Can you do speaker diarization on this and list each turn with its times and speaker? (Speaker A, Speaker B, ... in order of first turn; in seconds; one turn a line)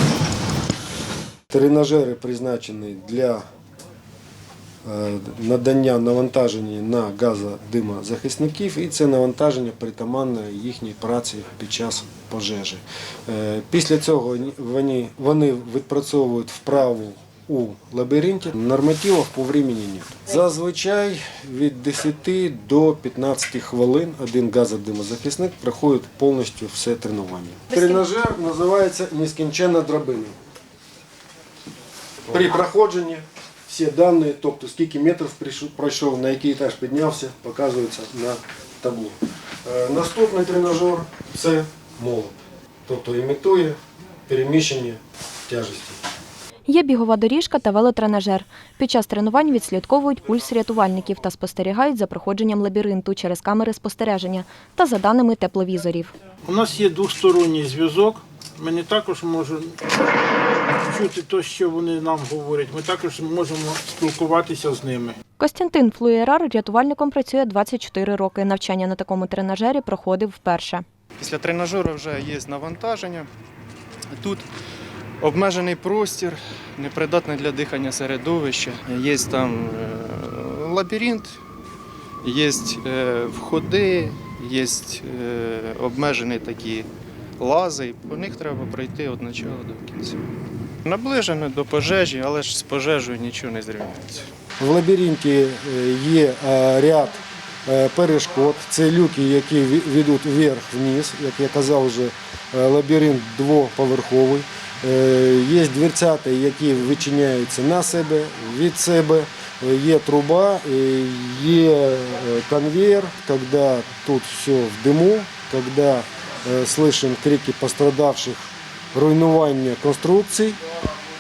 Speaker A: 1.5-3.4
Speaker A: 4.8-30.4
Speaker A: 32.3-46.0
Speaker B: 46.7-56.1
Speaker C: 56.4-59.8
Speaker C: 60.6-65.2
Speaker B: 65.4-70.8
Speaker D: 71.2-73.3
Speaker D: 74.1-74.5
Speaker D: 75.2-81.4
Speaker D: 82.2-86.9
Speaker D: 87.4-90.2
Speaker D: 90.8-94.2
Speaker A: 94.6-120.6